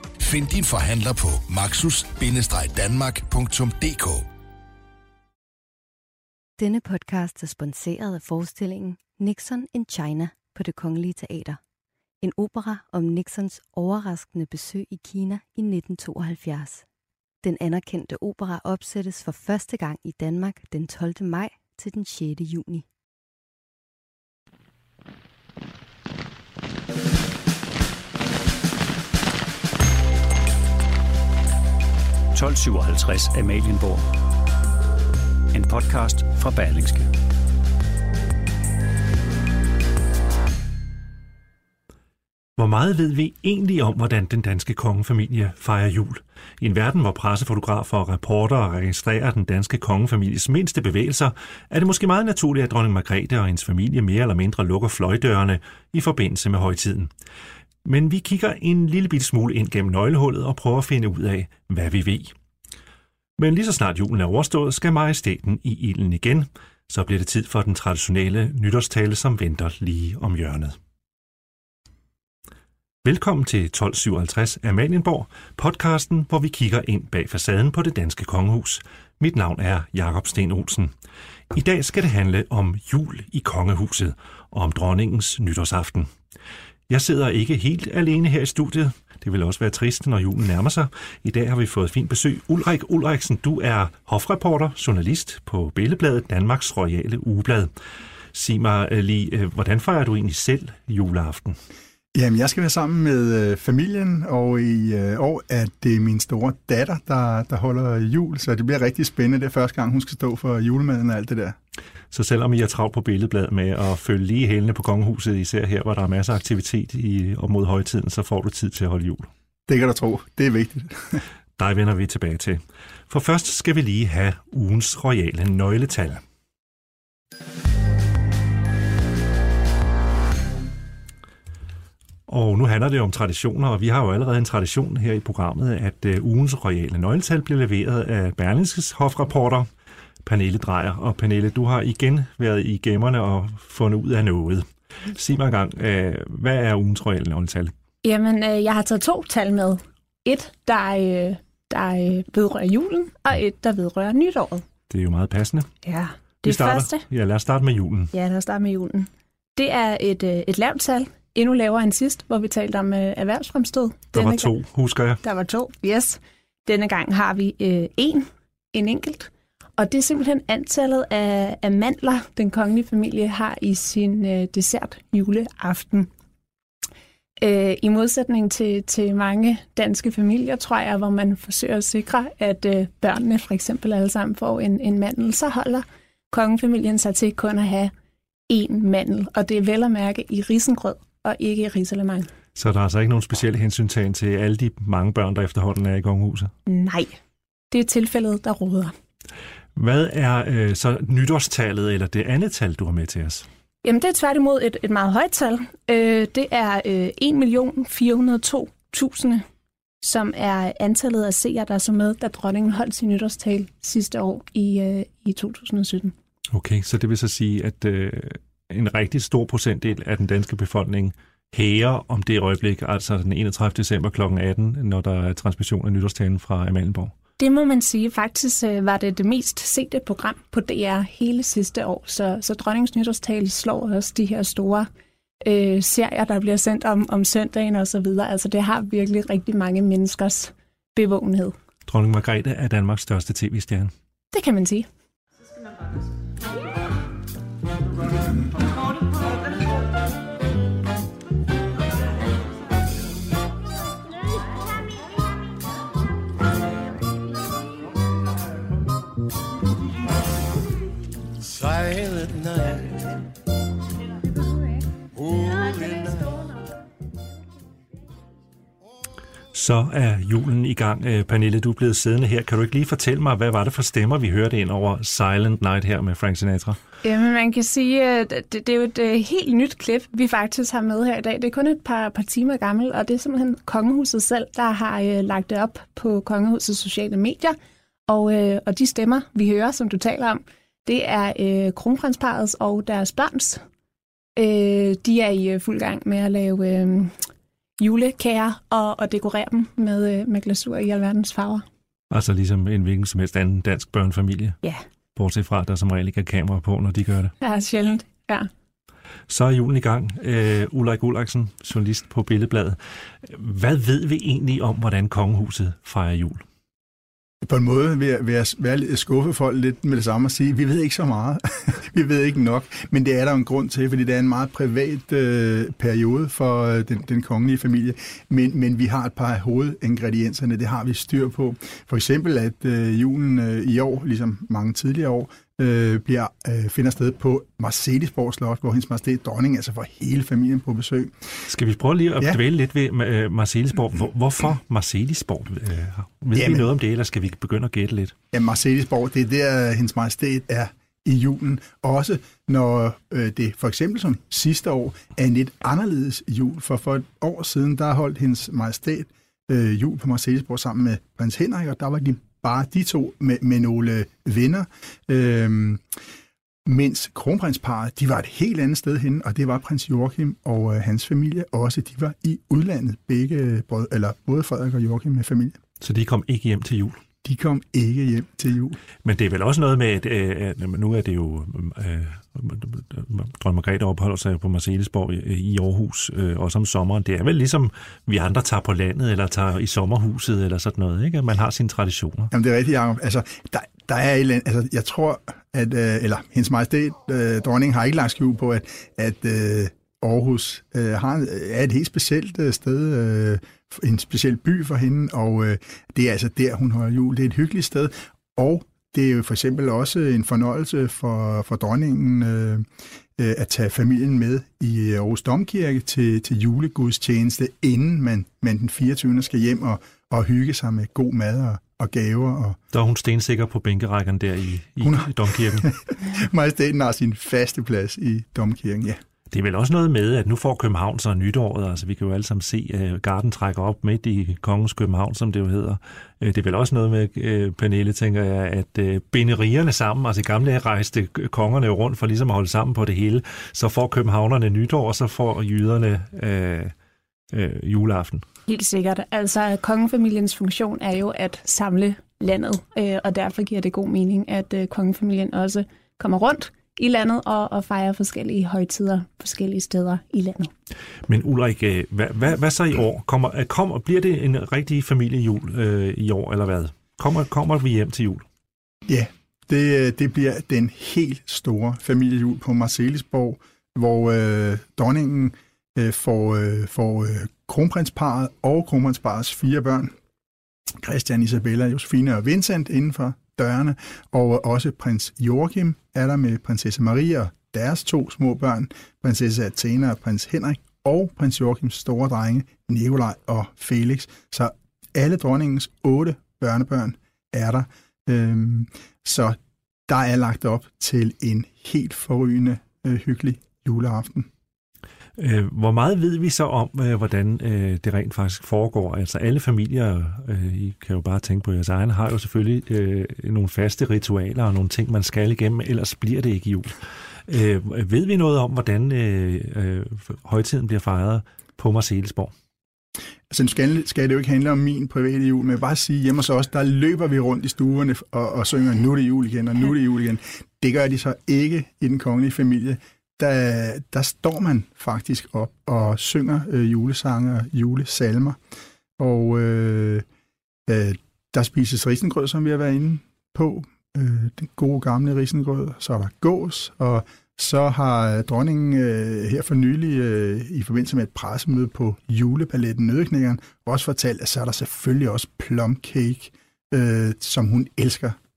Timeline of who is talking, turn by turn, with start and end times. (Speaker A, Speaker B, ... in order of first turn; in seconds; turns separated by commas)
Speaker A: 0.2-4.3, Speaker B: 6.6-11.6, Speaker B: 12.2-16.9, Speaker B: 17.4-22.9, Speaker C: 32.3-34.1, Speaker C: 35.5-37.1, Speaker D: 42.6-57.1, Speaker D: 57.8-62.3, Speaker D: 63.4-70.8, Speaker D: 73.0-80.9, Speaker D: 81.5-86.1, Speaker D: 86.9-97.7, Speaker D: 98.3-101.6, Speaker E: 102.1-111.6, Speaker D: 112.1-119.3, Speaker E: 119.7-121.2, Speaker D: 121.6-126.2, Speaker D: 132.3-139.7, Speaker D: 140.2-147.7, Speaker F: 148.0-154.7, Speaker D: 154.9-155.7, Speaker F: 155.8-157.0, Speaker D: 156.4-158.1, Speaker F: 158.1-164.5, Speaker D: 164.2-165.2, Speaker F: 165.2-176.1, Speaker F: 177.4-187.9, Speaker F: 188.5-192.3, Speaker D: 192.6-196.5, Speaker F: 196.7-197.2, Speaker F: 197.7-198.9, Speaker D: 199.8-203.5, Speaker F: 203.8-209.4, Speaker F: 210.0-216.1, Speaker D: 216.5-227.1, Speaker F: 227.4-234.9, Speaker F: 235.4-241.6, Speaker D: 241.9-243.9, Speaker F: 244.3-244.9, Speaker C: 262.2-262.9, Speaker D: 269.5-276.8, Speaker F: 277.0-293.6, Speaker F: 294.4-297.2, Speaker F: 297.8-301.6, Speaker D: 302.1-304.6, Speaker D: 305.2-307.3, Speaker F: 307.4-308.5, Speaker D: 309.3-316.4, Speaker E: 317.4-341.3, Speaker D: 341.5-348.1, Speaker E: 346.4-346.7, Speaker E: 348.3-365.8, Speaker E: 366.6-375.6, Speaker D: 375.8-377.0, Speaker E: 377.2-378.8, Speaker D: 379.0-392.3, Speaker E: 392.3-422.6, Speaker D: 422.7-425.7, Speaker E: 424.8-429.0, Speaker D: 429.3-446.7, Speaker D: 447.3-448.2, Speaker F: 448.5-460.5, Speaker D: 461.1-468.2, Speaker E: 468.9-479.9, Speaker E: 480.8-499.4, Speaker E: 499.9-504.3, Speaker D: 505.2-522.3, Speaker E: 523.3-538.4, Speaker E: 539.0-540.1, Speaker E: 540.7-558.2